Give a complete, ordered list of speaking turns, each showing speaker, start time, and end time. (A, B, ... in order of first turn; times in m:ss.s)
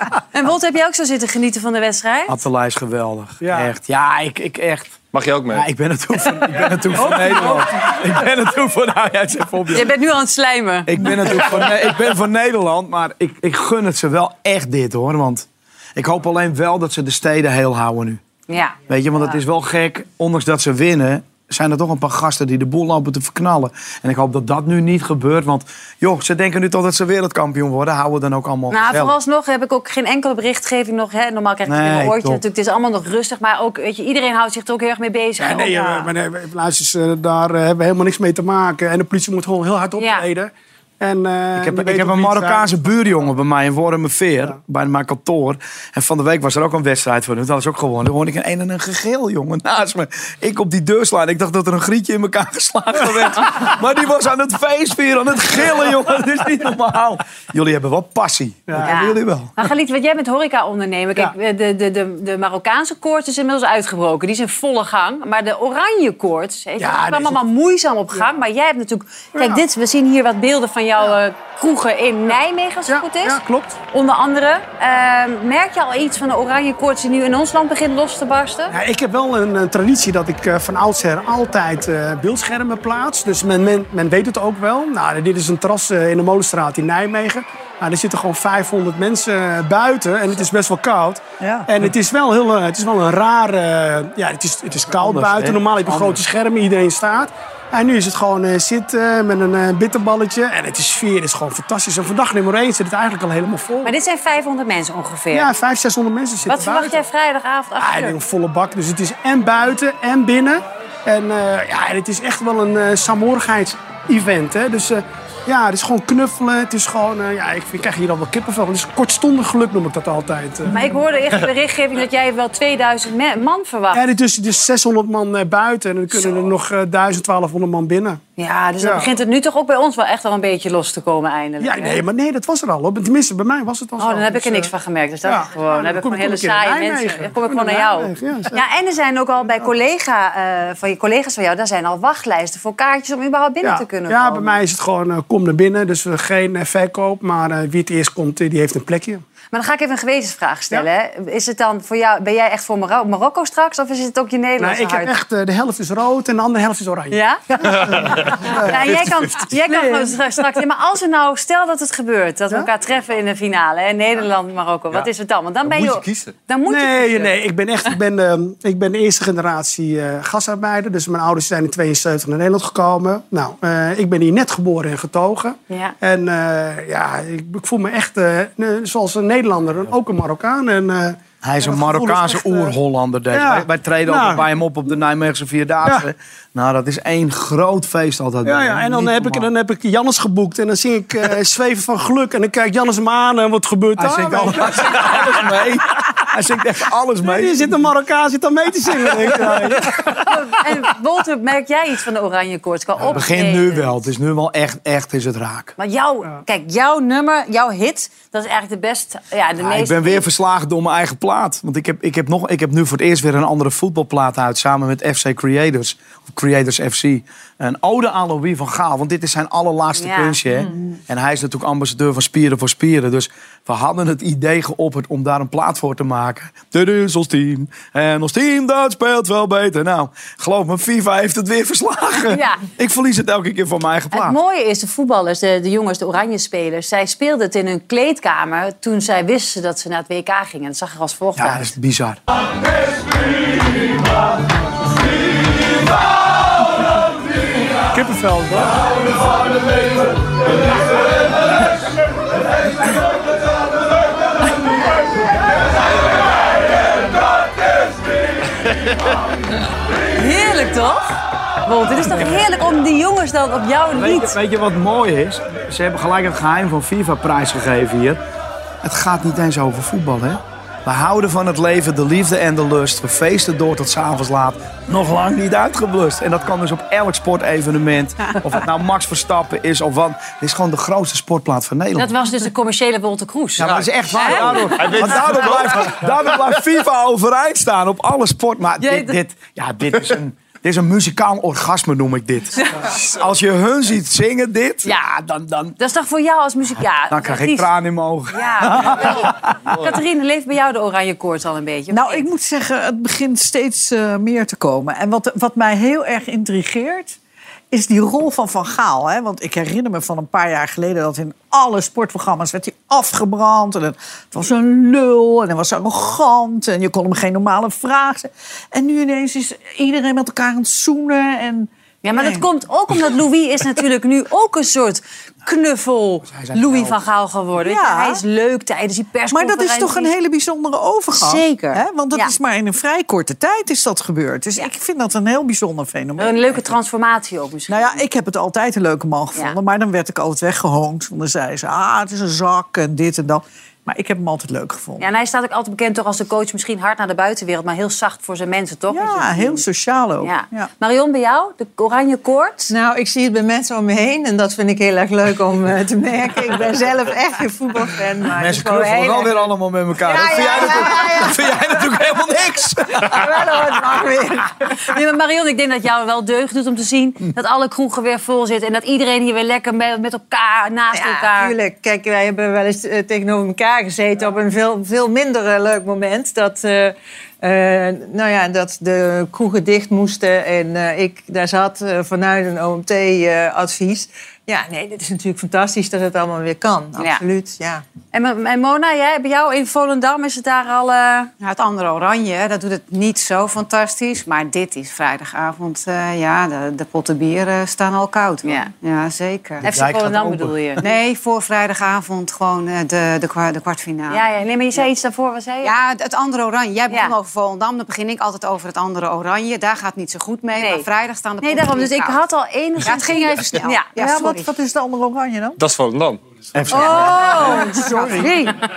0:00.3-0:02.4 A
0:02.3-0:04.9 B
0:03.4-0:03.7 C
0:05.1-0:05.7 D
0:05.5-0:09.9 B
0:07.0-0:07.6 C
0:09.7-0:11.4 A
0:10.9-0:18.2 B
0:18.5-0:19.4 A
0:18.9-0:29.1 B
0:28.7-0:36.0 A
0:31.6-0:32.4 B
0:35.4-0:43.1 C
0:40.0-0:40.2 A
0:41.6-0:59.5 B
0:58.7-0:59.0 C
0:58.8-1:13.4 A
1:06.8-1:07.4 C
1:09.3-1:09.6 C
1:12.9-1:13.8 C
1:13.9-1:18.7 A
1:18.7-1:43.9 C
1:31.4-1:31.7 E
1:34.8-1:36.2 B
1:43.8-1:45.5 A
1:45.3-1:47.0 C
1:46.4-1:48.2 A
1:47.8-2:00.8 C
2:00.7-2:04.0 A
2:03.9-2:08.2 C
2:06.1-2:06.4 A
2:08.4-2:12.0 A
2:08.8-2:09.1 C
2:11.6-2:14.7 C
2:14.0-2:24.5 A
2:15.2-2:18.6 C
2:23.6-2:29.2 C
2:29.5-2:35.1 A
2:34.6-2:39.4 C
2:37.1-2:37.4 A
2:38.7-2:47.4 A
2:39.6-2:40.2 E
2:45.6-2:46.3 D
2:46.7-3:02.7 C
2:55.7-2:55.9 A
3:01.4-3:09.5 B
3:03.3-3:04.4 C
3:08.4-3:15.4 C
3:14.0-3:17.9 B
3:17.2-3:20.1 C
3:19.0-3:19.9 B
3:20.2-3:24.0 A
3:23.0-3:25.7 B
3:25.8-3:30.2 A
3:29.6-3:54.4 B
3:39.9-3:40.5 A
3:52.3-3:52.6 A
3:54.1-4:01.7 A
4:01.4-4:02.2 B
4:07.9-4:08.8 C
4:20.2-4:21.1 A
4:21.6-4:24.3 A
4:22.1-4:22.3 B
4:23.9-4:28.2 B
4:28.8-4:42.1 B
4:42.0-4:45.6 A
4:43.6-4:55.8 B
4:44.7-4:46.6 D
4:48.8-4:49.2 A
4:52.6-4:52.8 A
4:55.8-4:57.7 A
4:57.1-4:59.7 B
4:58.3-5:02.3 A
5:01.9-5:07.2 E
5:07.7-5:22.5 E
5:22.0-5:30.1 A
5:26.3-5:27.0 B
5:27.6-5:28.2 E
5:29.3-5:36.7 E
5:31.1-5:32.3 A
5:36.2-5:38.0 A
5:37.7-5:45.1 E
5:45.0-5:49.6 A
5:48.9-5:50.7 E
5:50.2-5:52.7 A
5:52.7-5:59.4 F
5:58.4-6:03.3 B
6:00.0-6:02.0 F
6:00.1-6:01.2 A
6:03.0-6:04.5 F
6:04.7-6:11.5 A
6:10.9-6:27.8 F
6:28.1-6:31.3 A
6:31.4-6:39.6 G
6:38.4-6:38.7 A
6:39.6-6:40.6 B
6:39.6-6:40.8 A
6:40.8-6:44.2 G
6:44.1-6:45.7 A
6:45.6-6:52.2 G
6:50.6-6:50.8 A
6:51.4-6:53.9 A
6:52.8-6:54.5 G
6:53.9-6:55.6 E
6:55.6-6:56.2 D
6:56.5-6:57.5 B
6:56.7-6:58.6 A
6:56.8-6:58.4 E